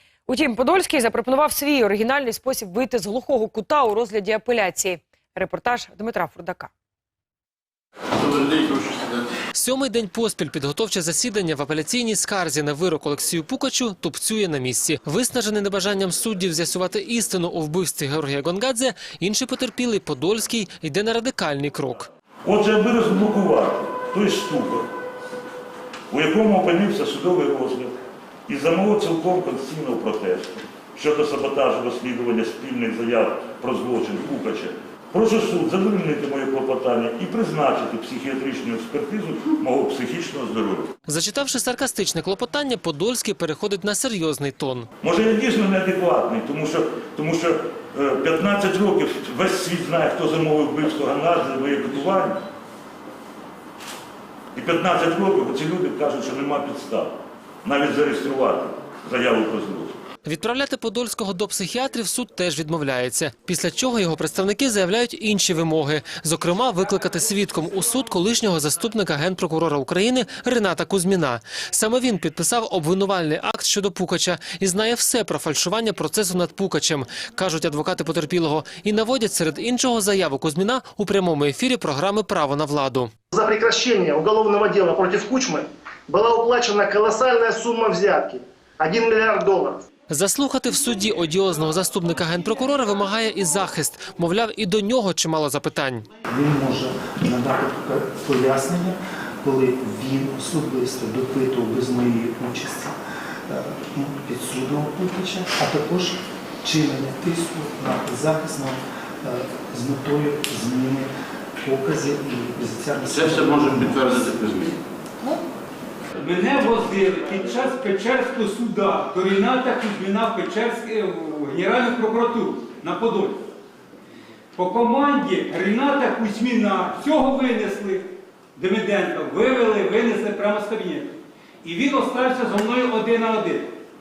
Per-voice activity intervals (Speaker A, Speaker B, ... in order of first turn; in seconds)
Speaker A: 0.3-6.7
Speaker B: 8.1-9.3, 113.0-114.8
Speaker C: 9.5-22.1, 41.1-44.9, 60.2-83.1, 90.1-96.1
Speaker D: 22.4-24.9, 26.1-27.9, 28.5-40.9, 45.0-52.4, 54.5-60.0
Speaker E: 83.3-89.8
Speaker F: 96.3-102.9, 103.5-111.1, 111.6-114.5
Speaker G: 116.2-123.5, 124.5-133.7